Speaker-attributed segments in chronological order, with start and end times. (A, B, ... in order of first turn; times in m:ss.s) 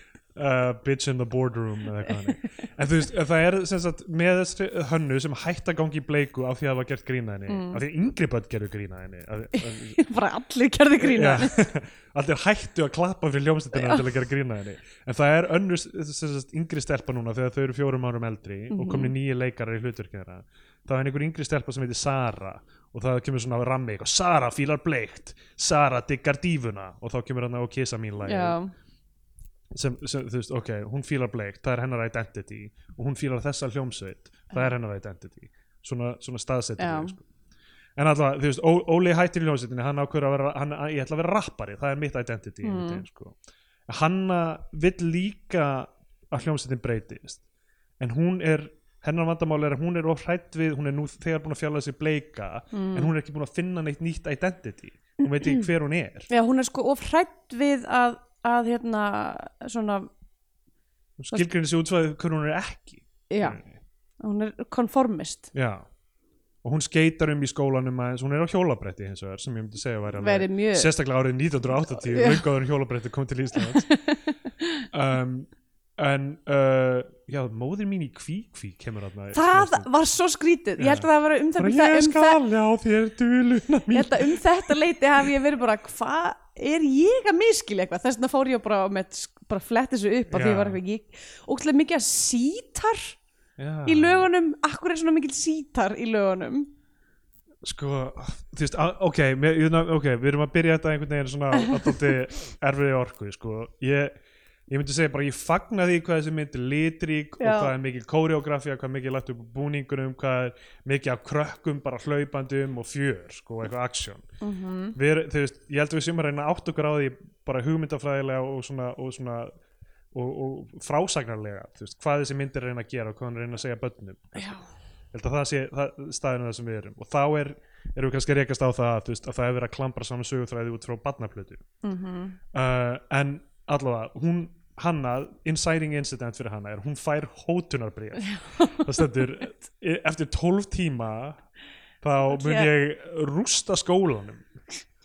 0:00.3-0:10.0 A
0:07.5-0:07.8 B
0:09.6-0:11.5 B
0:11.0-0:28.6 A
0:13.7-0:14.1 B
0:18.7-0:19.1 B
0:28.2-0:28.7 B
0:29.7-0:37.2 A
0:36.8-0:37.2 B
0:38.0-0:43.4 A
0:42.6-0:43.0 B
0:43.9-0:47.4 A
0:48.0-0:56.3 A
0:52.7-0:53.1 B
0:55.2-0:55.6 B
0:56.3-1:00.1 B
1:01.2-1:03.7 A
1:03.3-1:03.6 B
1:04.2-1:05.5 B
1:05.5-1:05.8 A
1:06.6-1:13.8 A
1:10.2-1:10.9 B
1:11.9-1:12.4 B
1:13.8-1:14.8 B
1:14.9-1:19.9 A
1:19.3-1:22.4 B
1:20.8-1:24.8 A
1:23.9-1:33.2 B
1:30.3-1:30.8 A
1:33.6-1:34.3 A
1:33.8-1:36.7 B
1:37.6-1:44.1 A
1:41.6-1:41.9 B
1:44.7-1:54.2 A
1:47.4-1:47.7 B
1:54.4-1:55.0 B
1:54.9-1:59.5 A
2:00.1-2:04.5 A
2:04.3-2:04.6 B
2:05.1-2:11.6 A
2:11.8-2:12.4 B
2:12.5-2:21.4 A
2:18.2-2:18.9 B
2:22.0-2:24.5 A
2:22.2-2:22.7 B